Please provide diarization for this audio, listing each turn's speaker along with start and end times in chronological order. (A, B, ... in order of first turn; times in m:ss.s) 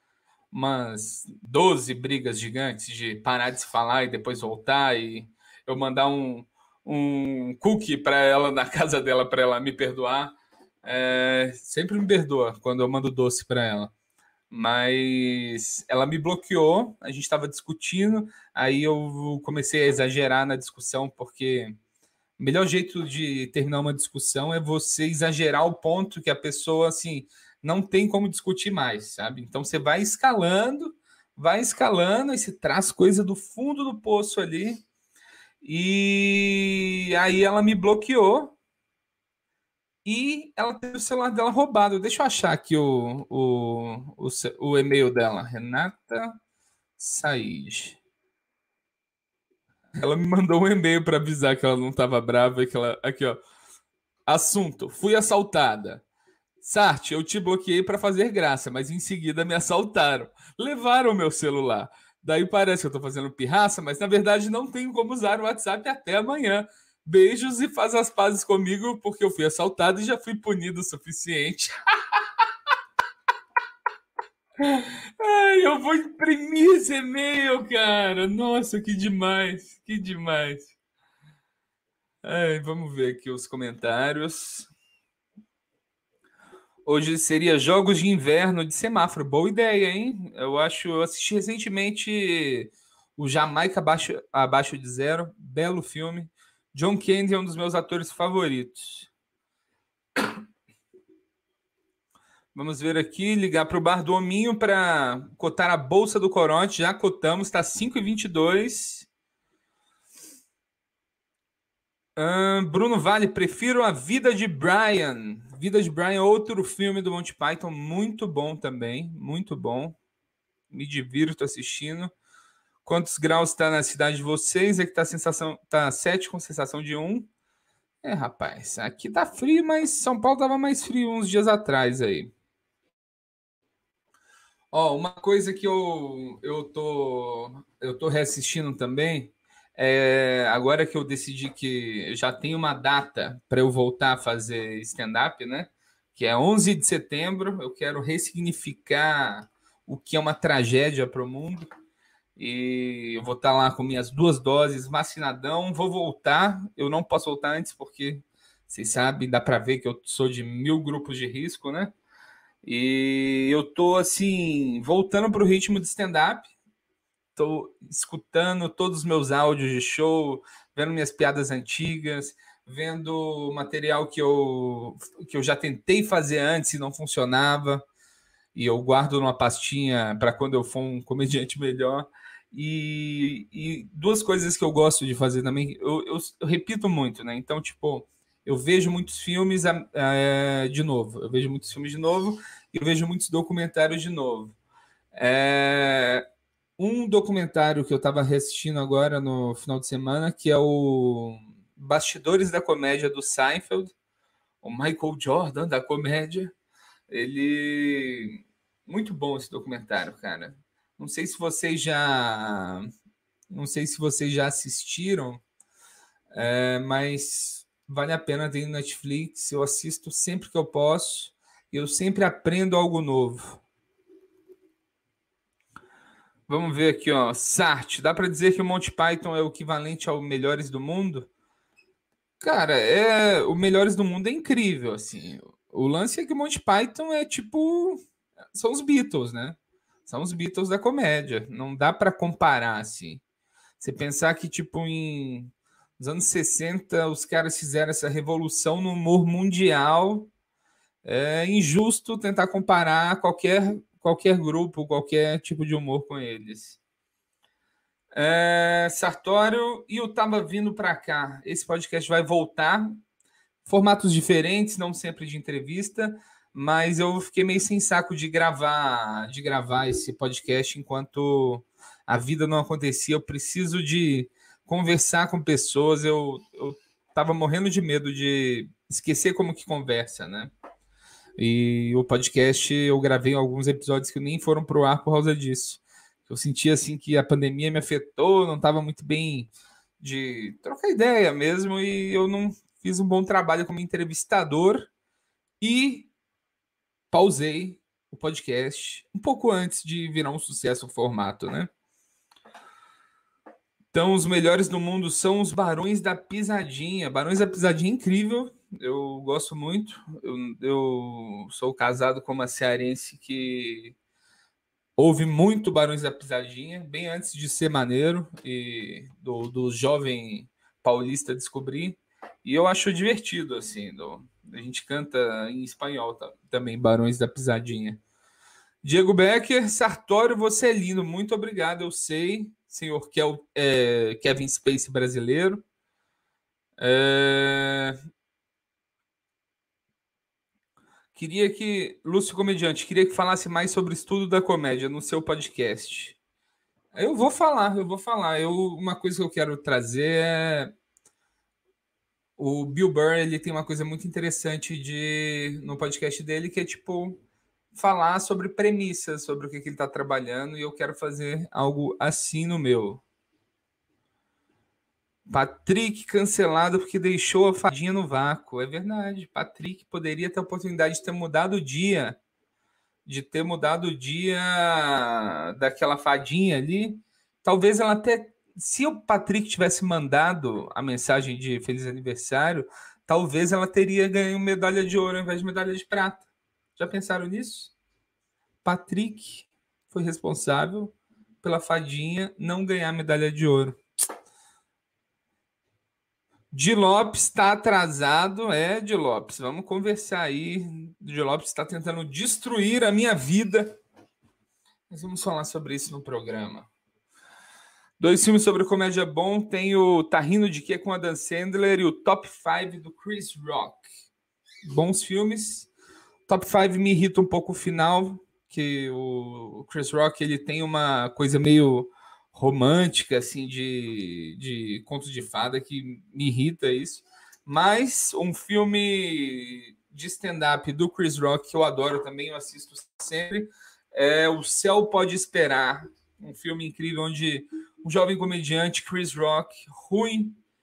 0:00.5-0:13.9 A
0:14.5-0:21.8 A
0:22.4-0:34.8 A
0:35.6-0:38.6 A
0:40.0-0:46.4 A
0:47.0-0:48.0 A
0:50.0-0:53.4 A
0:54.3-0:56.0 A
0:56.6-1:11.7 A
1:14.6-1:20.7 A
1:22.2-1:24.7 A
1:26.8-1:39.1 A
1:42.6-1:49.1 A
1:52.2-2:00.0 A
2:00.7-2:02.1 A
2:02.8-2:07.3 A
2:08.0-2:12.3 A
2:14.7-2:31.7 A
2:32.4-2:42.0 A
2:42.6-2:46.5 A
2:47.4-2:57.8 A
2:58.6-3:14.6 A
3:15.2-3:16.2 A
3:16.8-3:23.9 A
3:24.6-3:26.5 A
3:27.1-3:32.9 A
3:33.5-3:35.4 A
3:36.3-3:43.6 A
3:46.5-3:51.3 A
3:52.4-3:58.0 A
3:58.5-4:03.2 A
4:03.8-4:10.3 A
4:11.0-4:16.8 A
4:18.1-4:23.0 A
4:23.7-4:40.5 A
4:41.4-4:54.9 A
4:55.6-4:56.1 A
4:57.1-5:01.7 A
5:03.9-5:14.0 A
5:15.0-5:28.0 A
5:28.8-5:35.6 A
5:36.8-5:38.0 A
5:41.2-5:46.2 A
5:47.0-5:50.7 A
5:52.4-5:57.2 A
5:57.7-6:03.0 A
6:05.3-6:12.2 A
6:13.1-6:26.2 A
6:26.8-6:27.7 A
6:28.6-6:33.8 A
6:36.5-6:43.8 A
6:44.9-6:46.7 A
6:48.0-6:53.9 A
6:54.6-6:55.7 A
6:56.3-7:20.4 A